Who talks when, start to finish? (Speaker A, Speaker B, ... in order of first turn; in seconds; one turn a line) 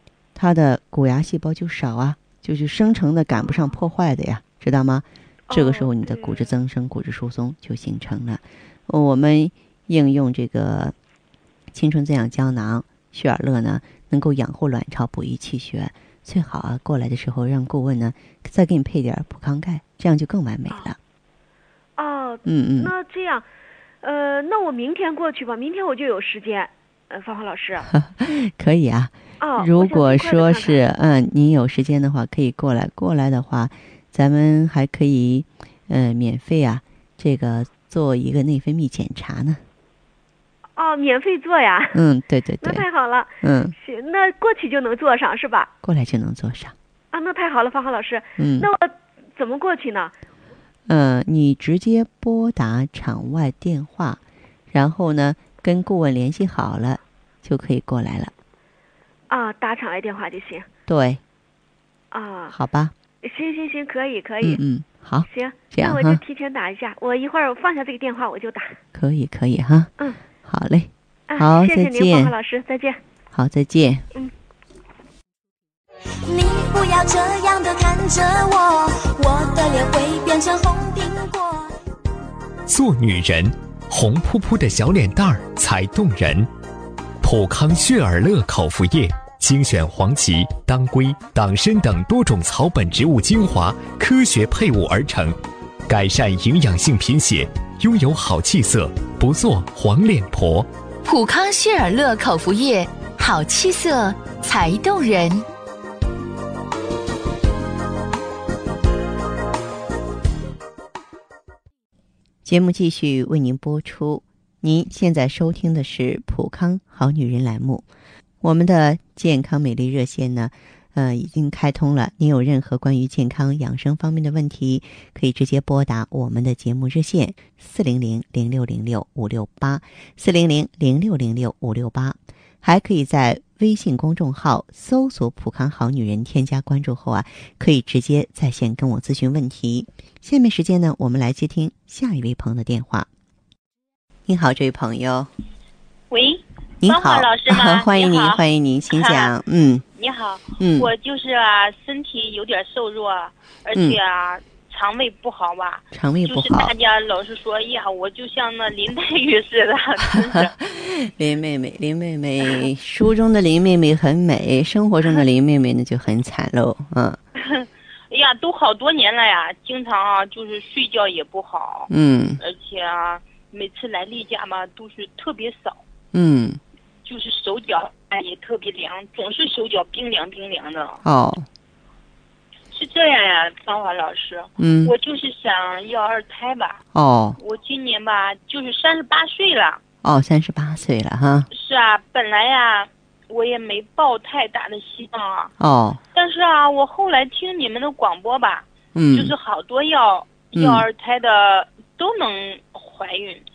Speaker A: 0.3-10.9
Speaker B: 5.5-6.5
Speaker A: 11.7-21.0
Speaker B: 20.7-20.9
Speaker B: 22.0-23.5
Speaker A: 22.5-22.9
Speaker B: 24.0-27.9
Speaker A: 27.9-39.6
Speaker B: 29.4-30.8
Speaker B: 40.8-42.0
Speaker A: 41.9-42.9
Speaker B: 42.6-45.7
Speaker A: 43.4-43.8
Speaker A: 45.8-46.8
Speaker B: 47.1-50.1
Speaker A: 48.4-48.7
Speaker A: 50.9-58.3
Speaker B: 59.3-60.7
Speaker A: 60.9-61.2
Speaker B: 62.1-62.6
Speaker A: 62.5-62.9
Speaker B: 63.2-64.6
Speaker A: 64.4-66.2
Speaker B: 65.3-68.8
Speaker A: 68.9-69.9
Speaker A: 70.4-72.3
Speaker B: 71.3-73.0
Speaker A: 73.3-74.1
Speaker C: 76.3-81.7
Speaker D: 82.7-86.5
Speaker D: 87.2-100.7
Speaker E: 101.0-105.5
Speaker A: 112.5-117.9
Speaker A: 118.4-143.1
Speaker A: 144.3-145.3
Speaker F: 146.1-148.4
Speaker A: 146.8-149.8
Speaker F: 148.9-149.3
Speaker F: 150.0-160.6
Speaker A: 150.6-150.9
Speaker A: 155.9-156.7
Speaker A: 160.2-167.2
Speaker F: 167.4-175.8
Speaker A: 171.9-172.4
Speaker A: 176.1-176.6
Speaker F: 177.1-181.0
Speaker A: 181.1-181.5
Speaker F: 182.7-186.8
Speaker A: 184.6-184.9
Speaker A: 186.9-187.4
Speaker F: 187.4-189.8
Speaker A: 190.0-191.5
Speaker F: 191.5-195.5
Speaker A: 195.6-196.0
Speaker F: 196.1-203.4
Speaker A: 198.9-199.3
Speaker A: 200.6-200.9